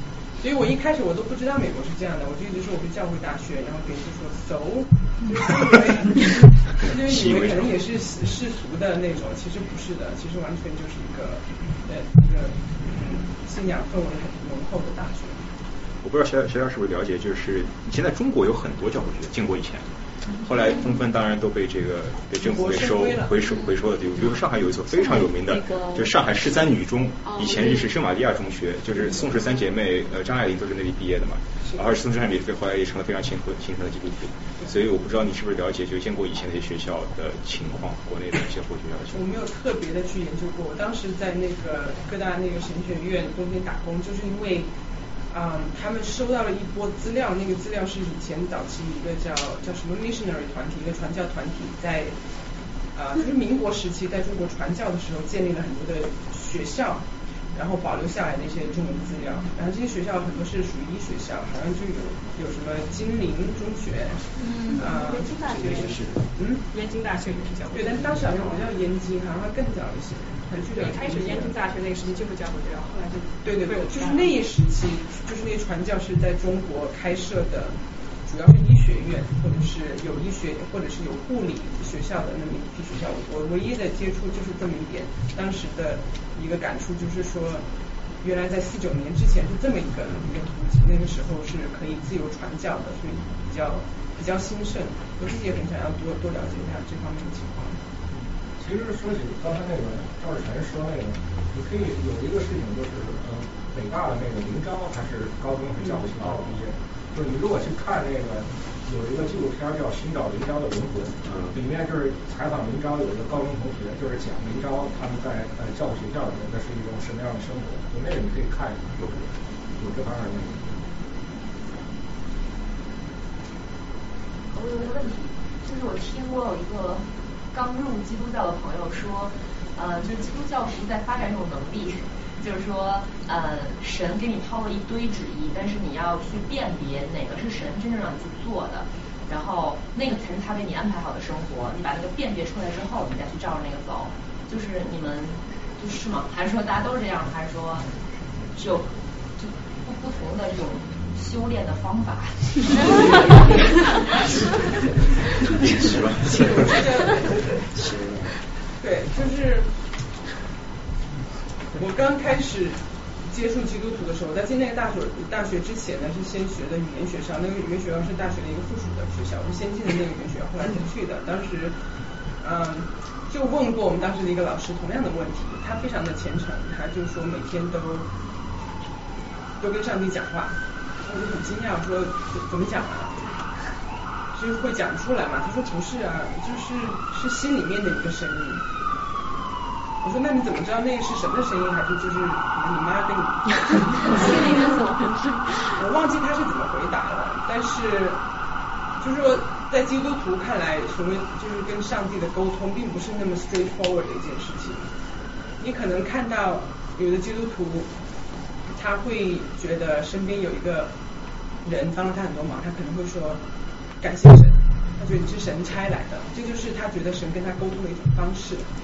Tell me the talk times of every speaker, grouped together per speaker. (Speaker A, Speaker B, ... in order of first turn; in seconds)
Speaker A: 0.4-15.5, 22.4-23.4, 39.1-44.7, 45.3-52.1, 52.9-66.6, 67.7-71.5, 73.4-87.7, 88.2-97.8, 156.3-157.4, 158.8-159.7, 161.8-162.8, 163.3-171.8, 172.4-178.1, 179.6-183.3, 184.3-188.6, 190.0-194.7, 195.7-198.2, 199.0-204.9, 205.6-207.9, 208.7-210.9, 211.6-213.4, 214.0-218.7
Speaker B: 6.9-7.7, 16.0-19.8, 20.4-39.2, 155.5-156.8
Speaker C: 64.6-66.1, 66.7-68.5, 70.7-74.4
Speaker D: 98.6-120.8
Speaker E: 124.5-147.9, 148.5-153.7